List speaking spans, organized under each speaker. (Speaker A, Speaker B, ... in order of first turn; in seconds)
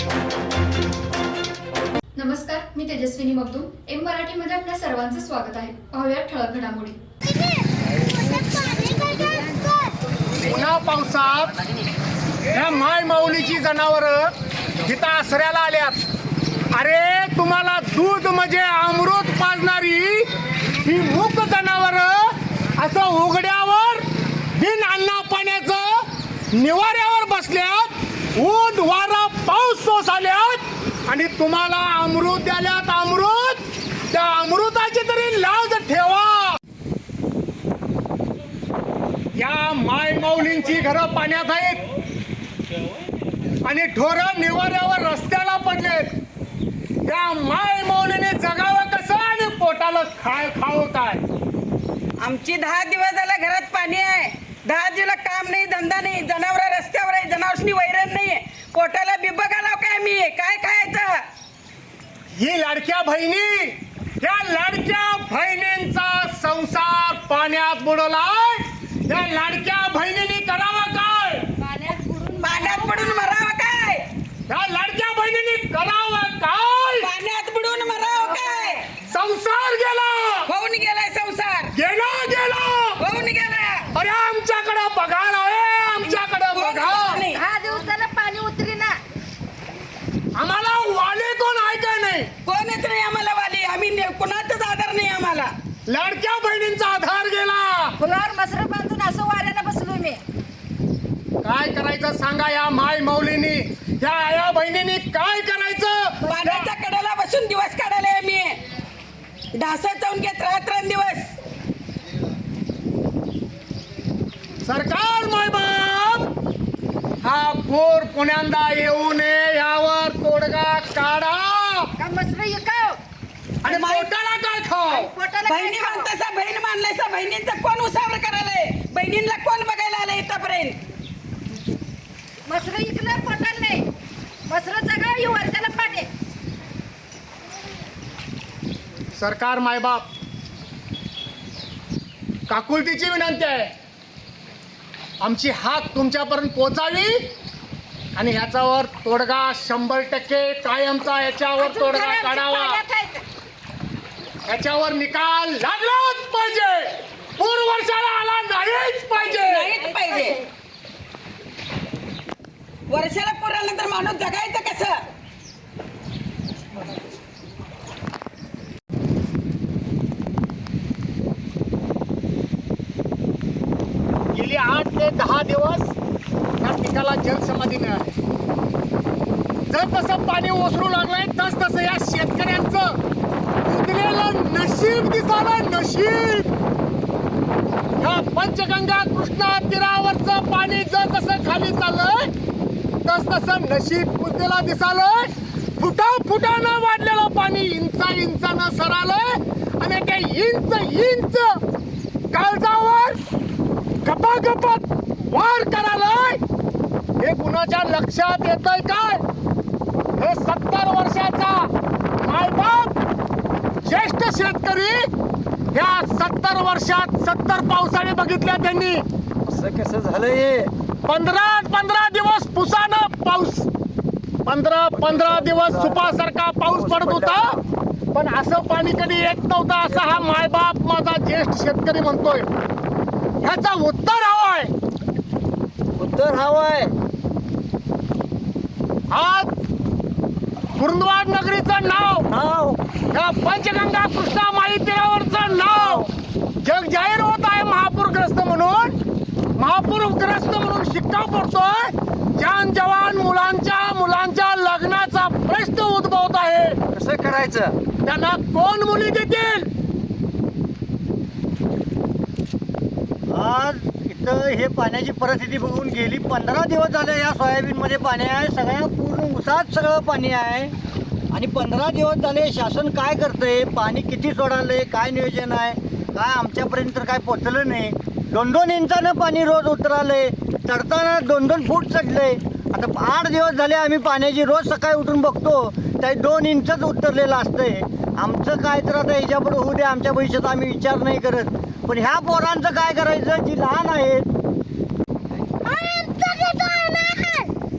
Speaker A: 2.1-7.0
Speaker B: 8.4-9.6, 71.6-73.3, 87.3-89.0, 98.0-100.2, 122.0-123.0, 124.9-126.1, 132.5-133.8, 134.5-136.1, 151.6-153.2, 159.8-160.4, 295.6-297.5
Speaker C: 10.4-11.5, 12.5-14.3, 14.8-16.0, 16.7-20.3, 20.8-36.6, 39.4-41.8, 43.6-46.1, 47.0-51.2, 62.4-71.5, 74.5-77.1, 79.0-80.5, 81.7-83.0, 83.9-87.2, 90.3-92.3, 95.9-98.0, 101.4-106.7, 114.6-116.3, 117.2-121.9, 123.6-125.1, 139.2-140.1, 142.5-143.7, 145.2-147.3, 148.1-152.8, 154.4-159.7, 174.3-175.9, 176.6-178.1, 179.7-183.0, 183.6-186.5, 188.0-192.3, 193.0-201.6, 202.3-203.2, 204.0-206.4, 207.2-209.2, 210.2-213.0, 213.8-215.1, 215.7-219.0, 221.1-223.7, 224.4-227.6, 228.1-232.5, 233.4-234.7, 239.1-239.5, 240.8-242.3, 243.1-246.1, 246.6-249.0, 249.6-256.8, 258.0-259.7
Speaker D: 52.2-61.2, 72.4-74.1, 77.0-78.9, 80.5-81.7, 83.0-83.8, 86.0-87.4, 92.5-95.5, 106.2-108.6, 109.5-111.3, 123.6-124.0, 125.4-130.8, 159.3-160.4, 162.9-165.0
Speaker E: 219.5-220.7, 224.9-226.2, 226.7-227.4, 256.9-257.7
Speaker F: 236.0-236.9, 242.3-242.8, 245.6-246.1, 263.3-270.7, 271.3-294.3